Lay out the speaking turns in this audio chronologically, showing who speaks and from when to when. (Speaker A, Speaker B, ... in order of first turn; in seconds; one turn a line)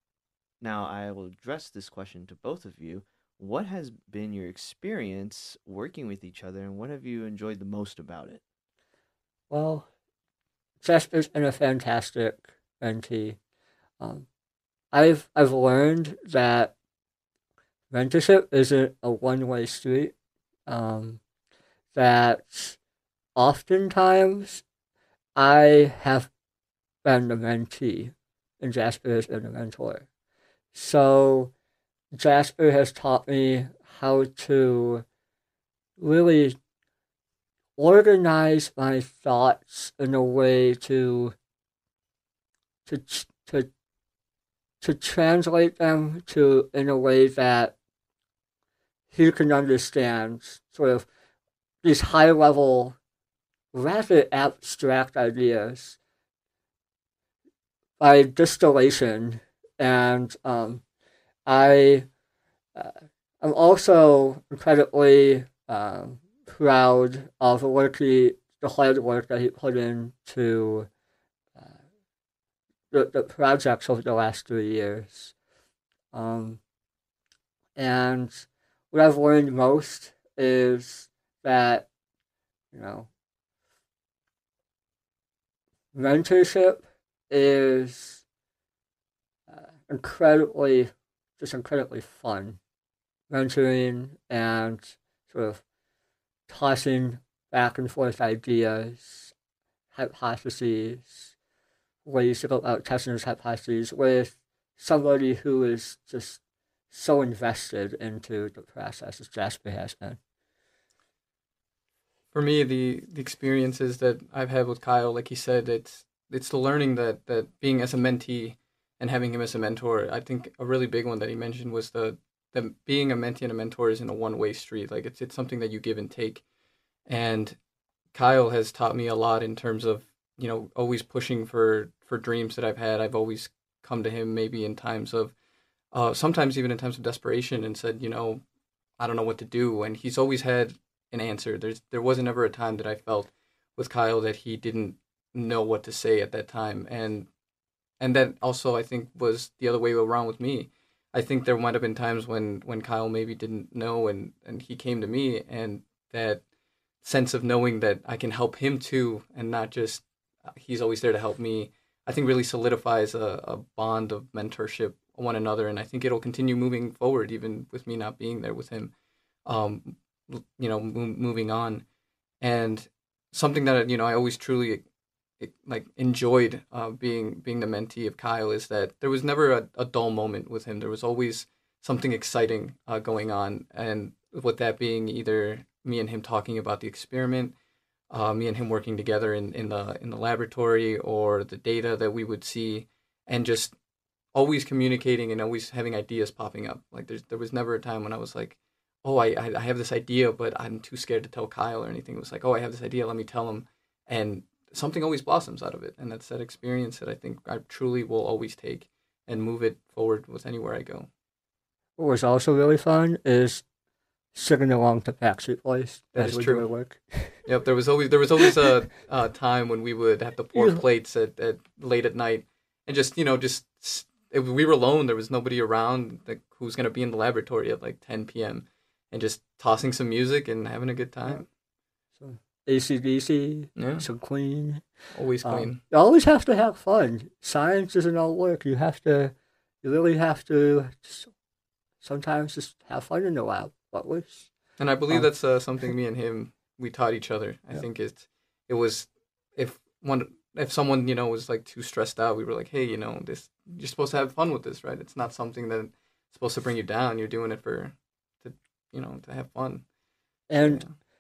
Speaker A: 0.6-8.4
Speaker B: 9.5-9.9
Speaker B: 10.8-13.4
Speaker B: 14.0-14.3
Speaker B: 14.9-16.7
Speaker B: 17.9-20.1
Speaker B: 20.7-21.2
Speaker B: 21.9-22.8
Speaker B: 23.4-24.6
Speaker B: 25.4-26.3
Speaker B: 27.0-30.1
Speaker B: 30.7-31.5
Speaker B: 32.1-35.0
Speaker B: 36.0-36.6
Speaker B: 37.8-41.4
Speaker B: 42.9-43.7
Speaker B: 44.8-47.8
Speaker B: 49.1-51.1
Speaker B: 51.8-53.0
Speaker B: 53.7-56.0
Speaker B: 58.0-60.8
Speaker B: 61.5-62.1
Speaker B: 62.8-70.9
Speaker B: 72.9-75.3
Speaker B: 76.1-76.6
Speaker B: 77.8-81.9
Speaker B: 82.7-83.1
Speaker B: 85.9-88.2
Speaker B: 89.5-92.6
Speaker B: 93.3-95.6
Speaker B: 96.5-99.3
Speaker B: 99.9-101.3
Speaker B: 102.0-110.2
Speaker C: 112.3-126.4
Speaker C: 127.1-127.6
Speaker C: 128.1-135.3
Speaker C: 135.9-138.4
Speaker C: 139.0-147.3
Speaker C: 148.0-156.4
Speaker C: 157.0-168.9
Speaker C: 169.5-171.8
Speaker C: 172.4-174.8
Speaker C: 175.4-187.5
Speaker C: 188.1-193.8
Speaker C: 194.3-211.1
Speaker B: 212.0-213.6
Speaker B: 214.3-217.4
Speaker C: 216.2-216.7
Speaker C: 217.4-231.4
Speaker B: 220.6-220.8
Speaker B: 232.2-234.8
Speaker C: 233.8-234.1
Speaker C: 235.1-235.8
Speaker B: 235.4-241.3
Speaker B: 242.0-244.5
Speaker C: 244.8-259.8
Speaker B: 260.5-260.8
Speaker C: 260.6-260.9